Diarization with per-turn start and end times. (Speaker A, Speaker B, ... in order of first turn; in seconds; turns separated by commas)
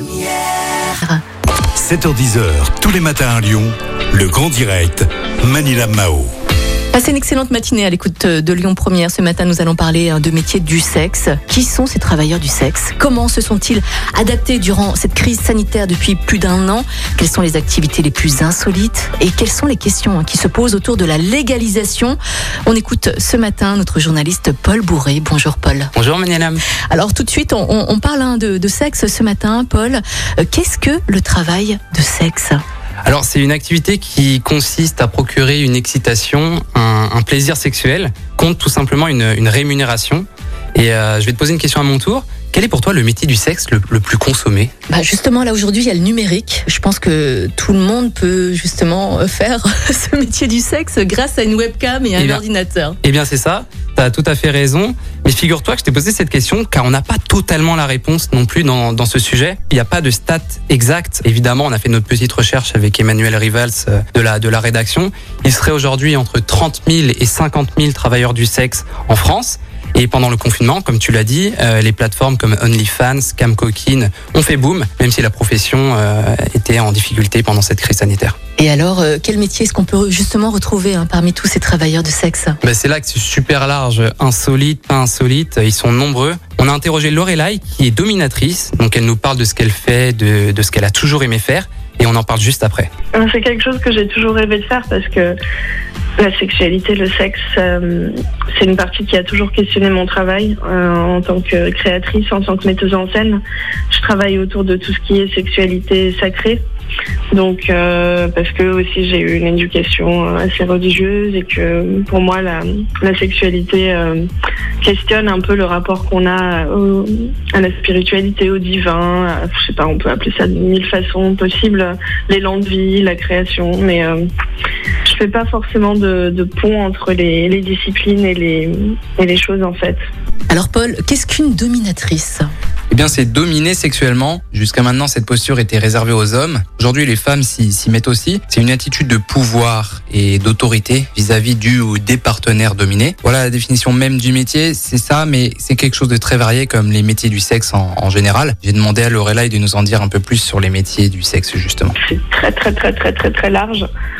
Speaker A: 1.8-6.3, Speaker B: 6.9-25.9, Speaker C: 25.9-26.6, Speaker B: 26.9-32.6, Speaker C: 33.0-44.7, Speaker B: 44.9-53.0, Speaker C: 52.2-52.4, Speaker C: 53.0-78.4, Speaker B: 78.6-82.6, Speaker C: 82.6-92.9, Speaker D: 93.2-95.4, Speaker D: 96.2-106.6, Speaker D: 107.3-114.2, Speaker D: 114.8-124.2, Speaker D: 125.0-130.0, Speaker B: 130.5-132.5, Speaker E: 132.9-151.9, Speaker D: 152.0-153.9